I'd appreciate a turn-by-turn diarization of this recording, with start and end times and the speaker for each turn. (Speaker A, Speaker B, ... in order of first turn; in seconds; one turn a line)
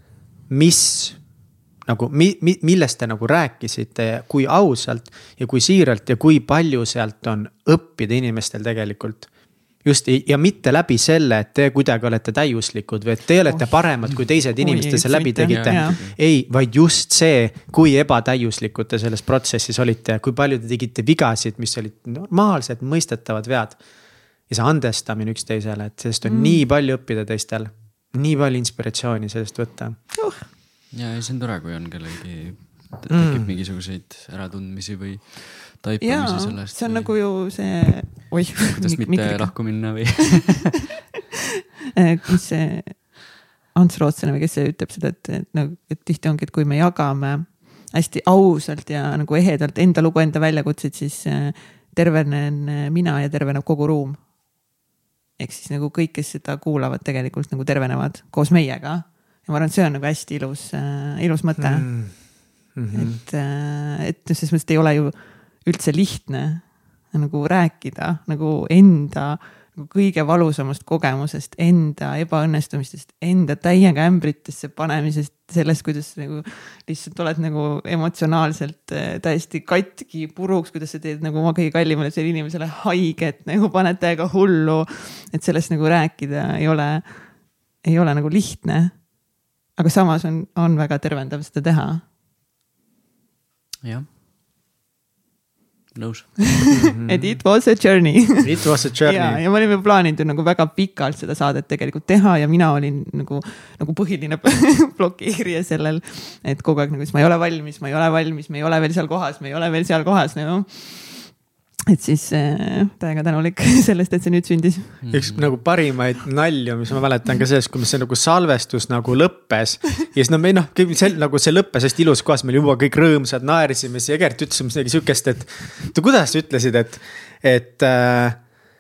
Speaker A: 0.5-1.2
Speaker A: 1.9-9.3
Speaker A: 9.8-23.8
Speaker B: 14.6-16.0
Speaker C: 15.4-16.2
Speaker A: 24.5-30.0
Speaker B: 26.2-26.6
Speaker B: 30.1-30.5
Speaker C: 30.9-37.2
Speaker A: 33.1-33.5
Speaker B: 36.0-40.4
Speaker C: 38.7-40.8
Speaker B: 42.0-54.2
Speaker B: 55.4-61.9
Speaker A: 61.6-63.2
Speaker B: 62.9-89.2
Speaker B: 89.7-92.0
Speaker C: 93.8-94.1
Speaker C: 95.9-96.7
Speaker B: 96.6-111.4
Speaker A: 96.7-97.4
Speaker A: 98.4-99.4
Speaker B: 111.9-115.0
Speaker C: 115.0-115.6
Speaker A: 115.1-128.4